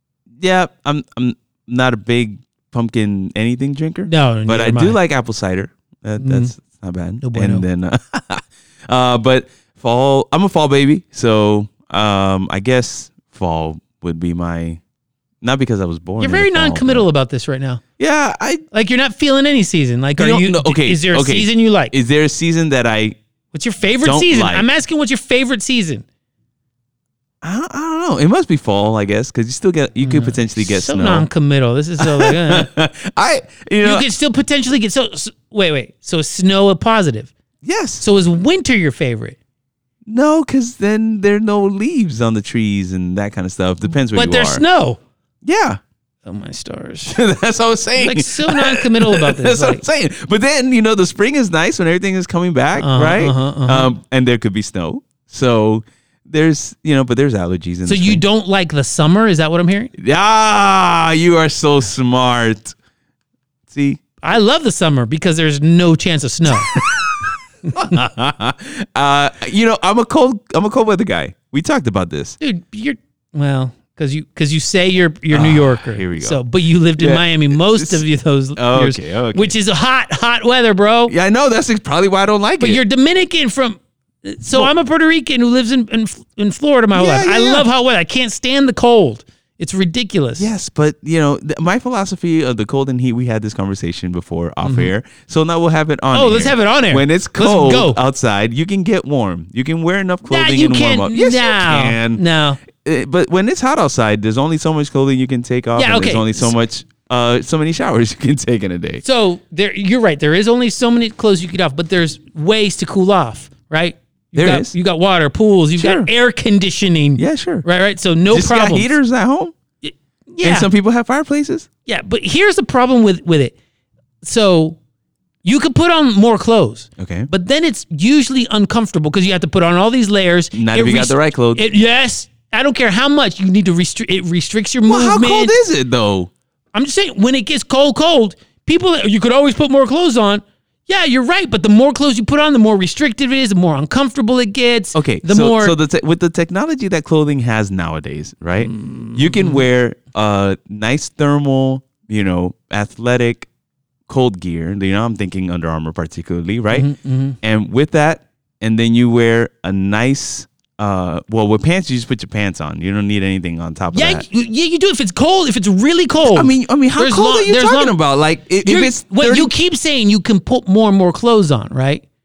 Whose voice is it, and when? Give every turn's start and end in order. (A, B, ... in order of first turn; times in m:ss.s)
0:00.4-0:14.8 A
0:04.0-0:05.0 B
0:06.2-0:06.5 B
0:07.2-0:07.6 B
0:15.4-0:17.0 A
0:16.2-0:17.8 B
0:18.0-0:18.6 A
0:18.7-0:21.9 B
0:20.2-0:23.2 A
0:23.5-0:26.0 B
0:24.0-0:24.6 A
0:27.4-0:31.3 A
0:30.0-0:32.7 B
0:32.0-0:34.0 A
0:33.8-0:37.3 B
0:37.6-0:38.0 A
0:38.0-0:39.4 B
0:40.1-0:44.6 A
0:44.1-0:45.0 B
0:45.4-0:45.8 A
0:46.2-0:47.2 B
0:47.0-0:58.2 A
0:48.0-0:49.8 B
0:52.8-0:53.9 B
0:57.8-0:59.9 B
1:00.0-1:02.8 A
1:03.7-1:04.0 A
1:04.2-1:06.7 B
1:06.6-1:12.4 A
1:12.4-1:21.1 B
1:15.3-1:16.4 A
1:17.0-1:18.0 A
1:18.6-1:19.5 A
1:21.1-1:22.8 A
1:22.6-1:30.5 B
1:26.9-1:27.7 A
1:30.4-1:42.2 A
1:34.6-1:34.9 B
1:36.1-1:38.0 B
1:40.2-1:42.6 B
1:42.7-1:49.0 A
1:45.8-1:46.5 B
1:49.0-1:58.9 B
1:54.3-1:54.7 A
1:55.8-1:56.1 A
1:57.2-1:57.6 A
1:58.3-1:59.5 A
1:59.8-2:00.7 B
2:00.4-2:01.7 A
2:01.8-2:03.5 B
2:04.2-2:04.8 B
2:05.4-2:15.6 B
2:07.0-2:07.3 A
2:10.5-2:11.6 A
2:14.8-2:16.3 A
2:16.7-2:25.8 B
2:24.9-2:33.5 A
2:28.6-2:29.6 B
2:34.1-2:36.9 A
2:36.7-2:37.4 B
2:37.4-2:44.2 A
2:43.9-2:48.0 B
2:46.2-2:49.5 A
2:48.6-2:52.0 B